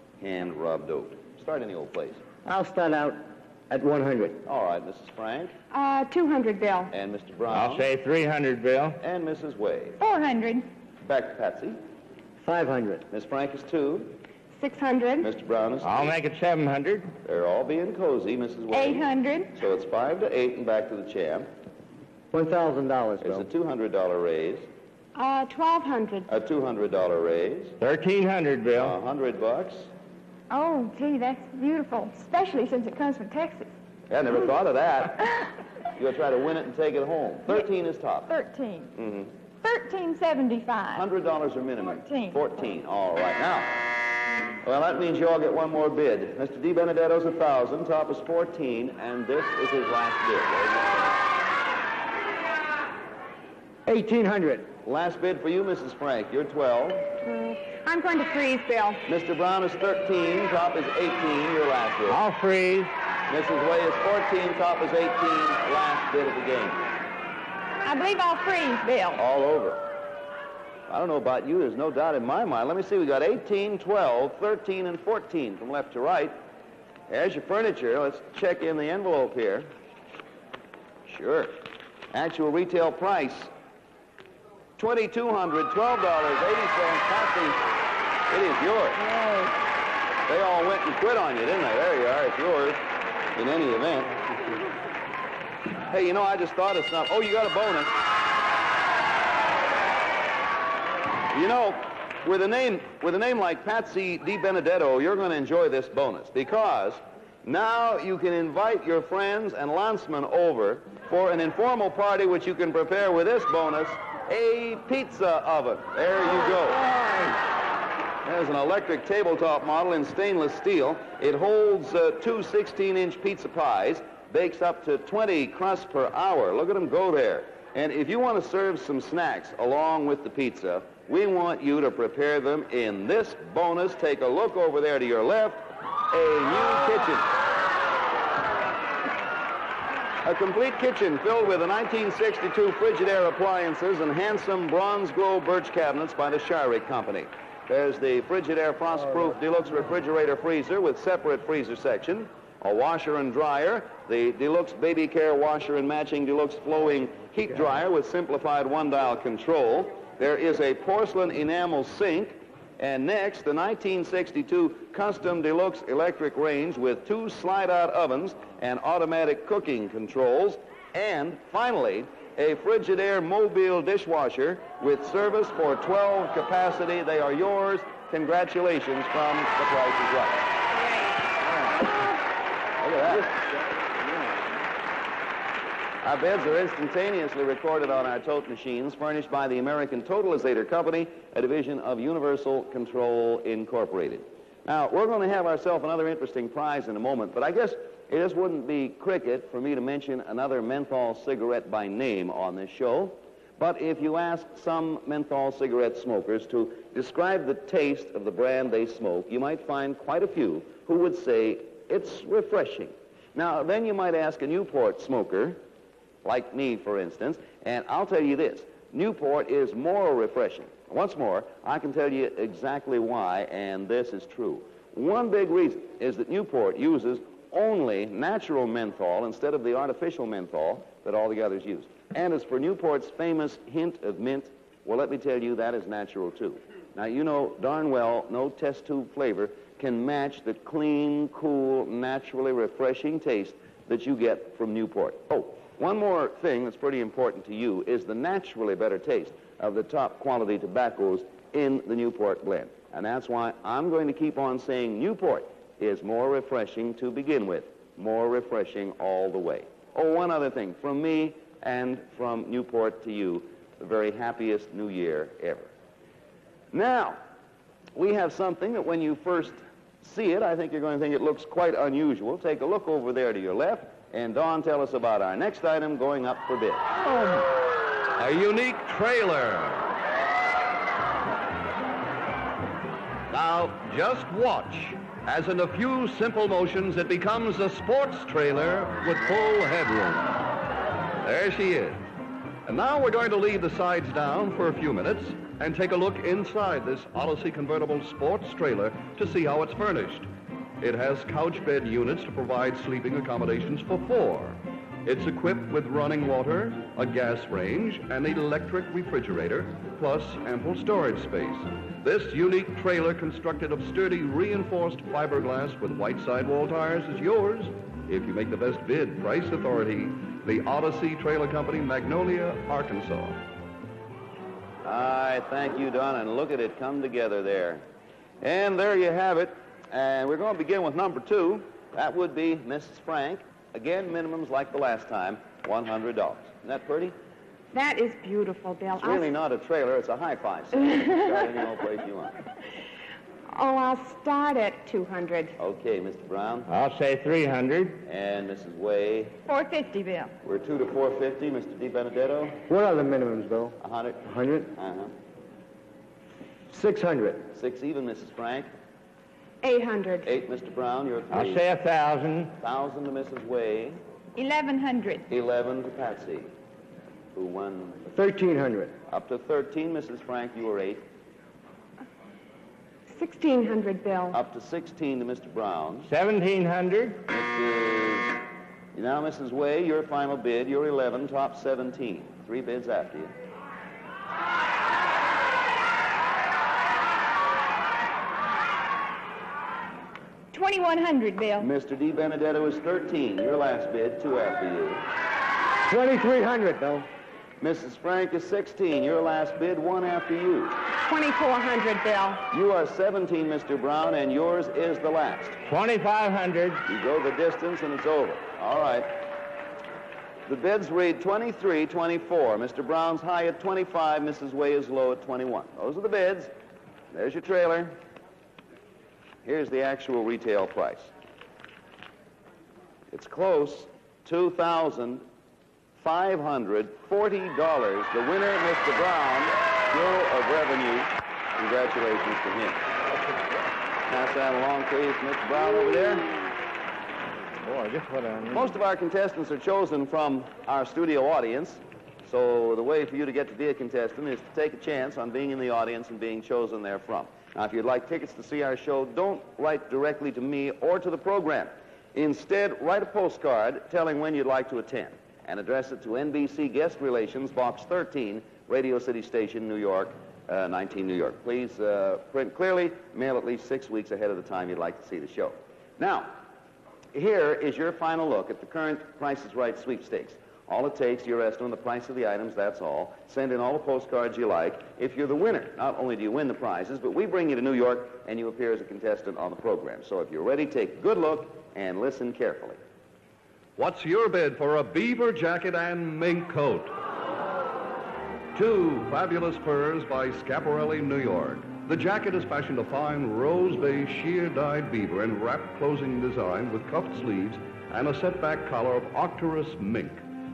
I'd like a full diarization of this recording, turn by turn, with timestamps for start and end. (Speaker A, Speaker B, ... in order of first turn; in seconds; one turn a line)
Speaker A: 0.2-2.2
Speaker B: 2.5-4.4
Speaker A: 4.5-5.5
Speaker C: 5.7-6.9
Speaker A: 6.9-7.9
Speaker D: 7.5-9.0
Speaker A: 9.0-10.0
Speaker E: 10.0-10.7
Speaker A: 11.0-11.8
Speaker B: 12.4-13.0
Speaker A: 13.1-14.2
Speaker C: 14.5-15.3
Speaker A: 15.2-16.2
Speaker D: 15.8-17.1
Speaker A: 17.2-21.5
Speaker E: 18.7-19.6
Speaker B: 22.3-23.5
Speaker A: 23.2-24.7
Speaker C: 25.1-26.3
Speaker A: 26.3-27.8
Speaker D: 27.8-29.0
Speaker A: 28.8-29.9
Speaker E: 30.5-33.7
Speaker A: 34.1-35.2
Speaker A: 36.0-38.3
Speaker E: 38.3-39.0
Speaker A: 39.0-39.3
Speaker E: 39.6-41.0
Speaker A: 40.9-43.9
Speaker E: 41.8-42.4
Speaker A: 44.6-51.2
Speaker B: 53.9-54.7
Speaker A: 54.8-57.1
Speaker C: 57.2-59.0
Speaker A: 59.1-62.2
Speaker D: 62.1-62.9
Speaker A: 63.3-66.8
Speaker E: 67.8-69.2
Speaker A: 69.2-69.8
Speaker A: 70.9-76.4
Speaker A: 77.1-79.7
Speaker A: 81.1-83.5
Speaker A: 84.8-87.6
Speaker A: 88.3-89.0
Speaker E: 89.0-89.5
Speaker A: 90.3-92.8
Speaker A: 93.3-94.2
Speaker A: 95.9-98.0
Speaker A: 101.3-116.9
Speaker A: 118.2-137.3
Speaker A: 140.2-180.5
Speaker A: 182.8-183.3
Speaker A: 186.0-215.6
Speaker A: 216.2-265.7
Speaker A: 266.7-267.2
Speaker A: 267.9-276.9
Speaker F: 277.0-277.4
Speaker F: 278.2-279.9
Speaker F: 283.3-290.4
Speaker F: 291.2-292.1
Speaker F: 292.7-300.3
Speaker F: 300.8-323.4
Speaker A: 324.8-327.9
Speaker A: 328.4-337.1
Speaker C: 337.7-339.3
Speaker A: 339.0-342.4
Speaker C: 343.5-345.6
Speaker A: 345.6-346.7
Speaker D: 346.7-348.0
Speaker A: 348.0-349.4
Speaker E: 349.5-350.3
Speaker A: 350.4-352.6
Speaker B: 352.7-354.7
Speaker A: 353.8-355.1
Speaker B: 356.7-357.5
Speaker A: 357.5-358.7
Speaker C: 359.6-360.3
Speaker A: 360.2-361.6
Speaker D: 361.3-362.6
Speaker A: 362.6-364.0
Speaker E: 364.4-365.3
Speaker A: 365.3-366.5
Speaker A: 367.3-368.1
Speaker B: 368.1-368.9
Speaker A: 369.1-371.0
Speaker C: 373.1-374.4
Speaker A: 374.3-376.1
Speaker D: 376.0-377.2
Speaker A: 377.3-378.4
Speaker A: 378.9-383.3
Speaker E: 390.5-391.7
Speaker A: 391.6-395.1
Speaker B: 395.9-397.1
Speaker A: 397.6-400.8
Speaker C: 401.1-402.4
Speaker A: 402.5-405.6
Speaker D: 405.6-406.9
Speaker A: 406.9-409.2
Speaker A: 410.5-416.5
Speaker A: 417.1-418.0
Speaker A: 419.4-421.1
Speaker A: 423.1-425.2
Speaker A: 426.0-432.9
Speaker A: 434.1-436.3
Speaker D: 437.5-438.7
Speaker A: 438.5-466.4
Speaker A: 467.1-482.8
Speaker F: 483.8-486.9
Speaker F: 488.6-500.2